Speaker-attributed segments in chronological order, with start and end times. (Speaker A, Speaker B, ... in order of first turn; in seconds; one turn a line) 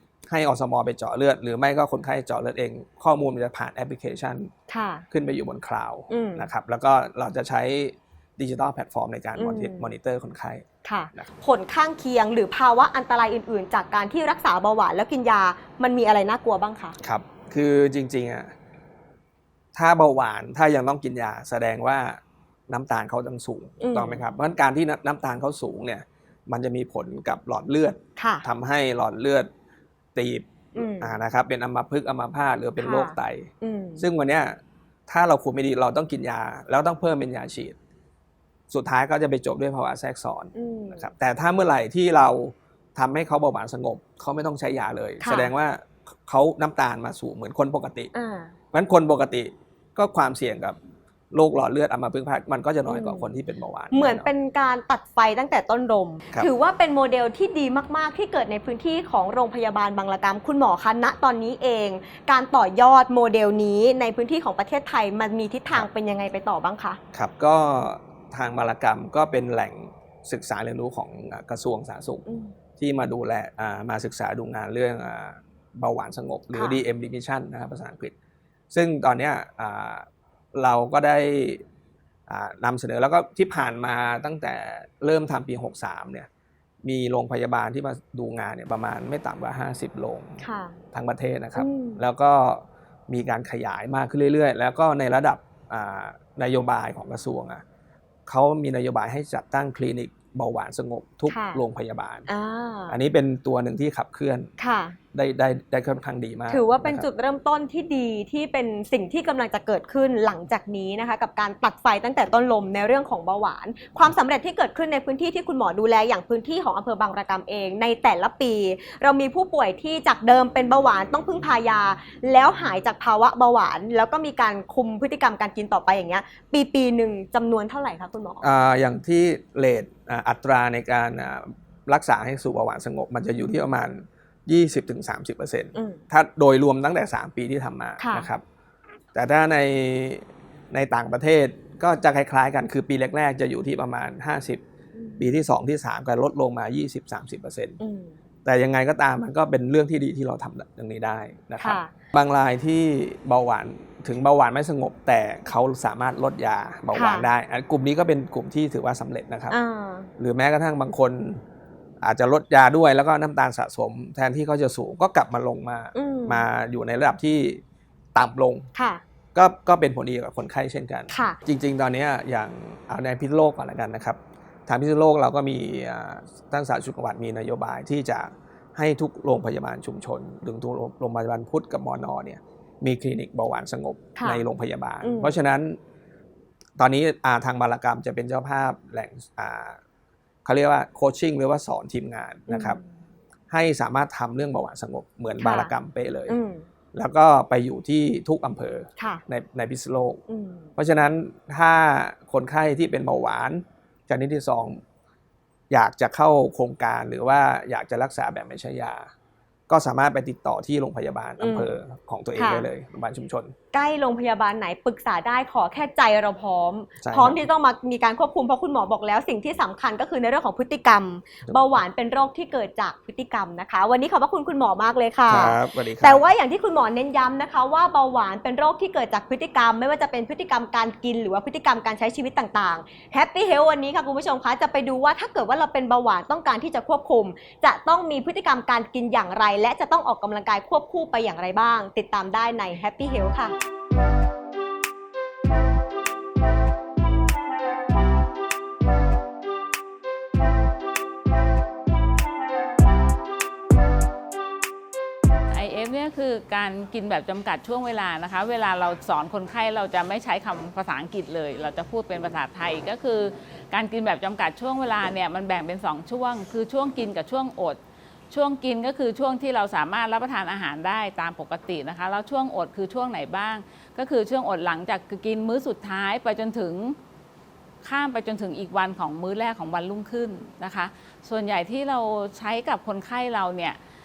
Speaker A: 0.3-4.5
Speaker B: 4.7-5.0
Speaker A: 5.1-11.3
Speaker B: 6.1-6.5
Speaker B: 9.4-9.9
Speaker B: 10.8-17.0
Speaker A: 17.0-18.5
Speaker A: 19.7-29.5
Speaker B: 23.8-24.2
Speaker B: 28.2-28.4
Speaker A: 30.1-37.8
Speaker B: 30.8-31.1
Speaker B: 32.8-34.0
Speaker A: 38.7-48.1
Speaker B: 40.5-41.0
Speaker B: 45.2-45.5
Speaker B: 48.1-48.5
Speaker A: 48.7-50.8
Speaker A: 51.3-54.3
Speaker B: 52.9-53.2
Speaker B: 53.9-67.0
Speaker A: 67.1-72.2
Speaker B: 72.2-72.5
Speaker A: 72.8-78.1
Speaker B: 76.5-76.8
Speaker A: 78.7-81.6
Speaker A: 82.3-86.3
Speaker A: 86.8-97.6
Speaker B: 90.4-90.8
Speaker B: 91.5-92.0
Speaker A: 98.3-102.3
Speaker B: 101.3-101.6
Speaker B: 102.3-103.0
Speaker A: 102.9-104.5
Speaker B: 104.6-105.0
Speaker A: 105.1-107.1
Speaker B: 106.5-128.4
Speaker A: 128.4-138.4
Speaker B: 135.7-136.0
Speaker B: 138.0-138.3
Speaker A: 139.1-144.6
Speaker B: 144.9-145.2
Speaker A: 145.2-147.8
Speaker B: 147.8-148.2
Speaker A: 148.4-159.6
Speaker B: 151.6-151.9
Speaker B: 156.9-157.2
Speaker B: 159.5-160.1
Speaker A: 160.2-161.4
Speaker A: 162.0-167.6
Speaker B: 165.9-166.4
Speaker A: 168.1-168.7
Speaker B: 168.7-169.0
Speaker A: 169.3-185.8
Speaker B: 171.1-171.4
Speaker B: 184.2-184.4
Speaker B: 185.0-185.3
Speaker A: 186.8-189.8
Speaker A: 190.4-192.8
Speaker B: 192.5-193.0
Speaker A: 193.5-196.4
Speaker B: 195.4-195.7
Speaker B: 196.3-196.7
Speaker A: 196.9-200.2
Speaker B: 200.3-200.7
Speaker A: 200.8-204.8
Speaker A: 205.7-209.1
Speaker A: 209.7-213.5
Speaker B: 211.4-211.7
Speaker B: 212.4-212.7
Speaker B: 213.7-243.5
Speaker A: 217.0-217.4
Speaker A: 225.3-226.2
Speaker C: 255.5-267.8
Speaker C: 268.3-277.0
Speaker C: 277.8-283.8